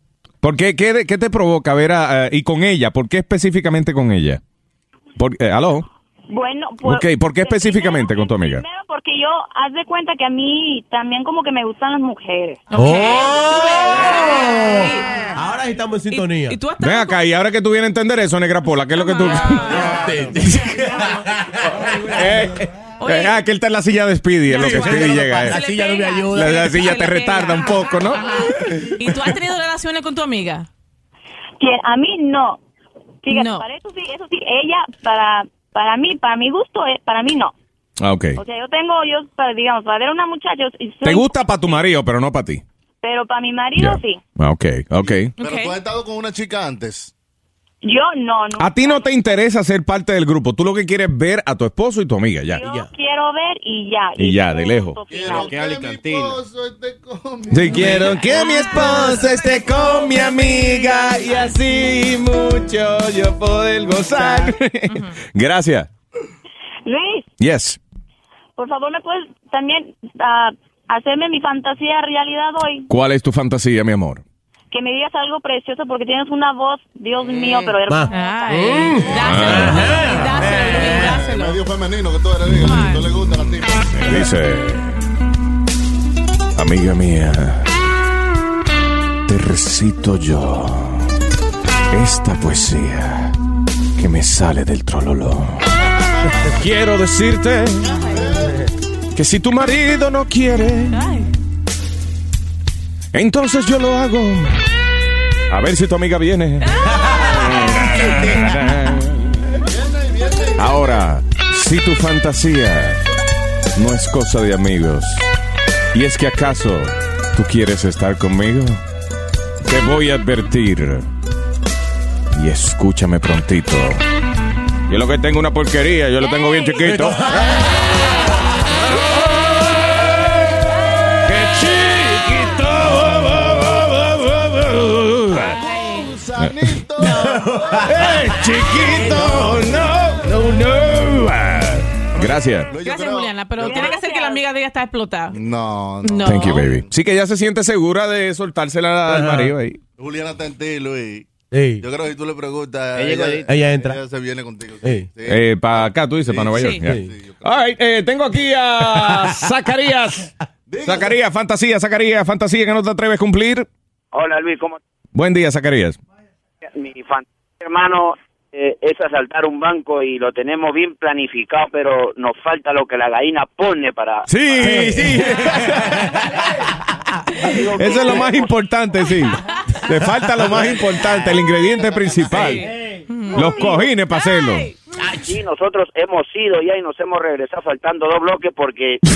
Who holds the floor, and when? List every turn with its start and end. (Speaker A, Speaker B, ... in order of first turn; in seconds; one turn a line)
Speaker A: 0.4-4.4
Speaker A: 5.2-5.9
Speaker B: 6.3-12.7
Speaker A: 6.8-8.6
Speaker C: 12.7-15.1
Speaker D: 12.8-16.6
Speaker C: 16.1-17.2
Speaker A: 16.8-19.8
Speaker C: 18.9-20.0
Speaker D: 19.5-22.5
Speaker A: 22.1-25.6
Speaker C: 23.0-23.4
Speaker C: 24.5-30.7
Speaker D: 24.5-26.9
Speaker A: 26.3-28.4
Speaker B: 31.6-32.6
Speaker B: 33.2-37.5
Speaker C: 33.3-33.6
Speaker A: 38.0-38.4
Speaker B: 38.4-41.3
Speaker A: 41.0-42.6
Speaker B: 43.0-44.2
Speaker A: 43.8-45.3
Speaker E: 45.1-47.1
Speaker C: 45.4-45.8
Speaker B: 47.8-49.2
Speaker A: 48.6-52.6
Speaker B: 52.5-55.7
Speaker D: 52.6-52.9
Speaker A: 54.2-55.0
Speaker E: 55.1-58.1
Speaker A: 57.5-65.9
Speaker C: 64.9-65.1
Speaker B: 66.8-67.3
Speaker A: 67.4-67.8
Speaker B: 68.6-72.9
Speaker A: 72.9-74.2
Speaker B: 74.7-79.0
Speaker D: 77.8-81.2
Speaker C: 78.1-81.6
Speaker A: 79.1-79.9
Speaker E: 80.5-84.0
Speaker C: 82.6-83.1
Speaker A: 82.6-82.9
Speaker A: 83.9-85.0
Speaker A: 86.5-87.7
Speaker A: 89.3-91.1
Speaker A: 91.9-93.3
Speaker A: 94.0-95.6
Speaker A: 96.6-97.9
Speaker E: 98.1-98.5
Speaker A: 99.1-101.0
Speaker C: 100.9-101.3
Speaker A: 103.1-104.6
Speaker A: 105.5-106.7
Speaker C: 106.6-107.5
Speaker D: 106.9-108.6
Speaker A: 107.3-109.4
Speaker E: 109.7-111.0
Speaker A: 110.6-113.0
Speaker A: 113.8-115.3
Speaker A: 115.9-118.8
Speaker A: 119.6-121.0
Speaker A: 122.3-124.0
Speaker A: 124.9-127.5
Speaker D: 126.8-127.7
Speaker A: 131.2-135.6
Speaker E: 135.5-138.2
Speaker D: 137.0-139.6
Speaker A: 137.9-142.7
Speaker E: 138.9-139.6
Speaker E: 142.6-143.9
Speaker C: 142.8-145.4
Speaker B: 143.8-144.3
Speaker E: 145.3-146.9
Speaker C: 146.0-146.6
Speaker A: 146.2-149.8
Speaker D: 149.1-149.5
Speaker E: 150.0-157.6
Speaker D: 151.5-151.8
Speaker D: 153.1-154.0
Speaker D: 154.8-155.1
Speaker A: 155.3-160.3
Speaker C: 156.6-156.8
Speaker D: 156.8-157.1
Speaker D: 159.0-159.3
Speaker E: 160.7-161.1
Speaker A: 160.8-163.7
Speaker F: 164.1-164.8
Speaker A: 165.1-166.0
Speaker F: 166.7-174.3
Speaker A: 174.3-176.0
Speaker D: 174.6-176.2
Speaker F: 177.5-178.6
Speaker A: 177.7-182.6
Speaker D: 180.4-180.7
Speaker C: 182.3-184.8
Speaker A: 183.3-184.7
Speaker D: 185.0-185.3
Speaker F: 185.2-189.0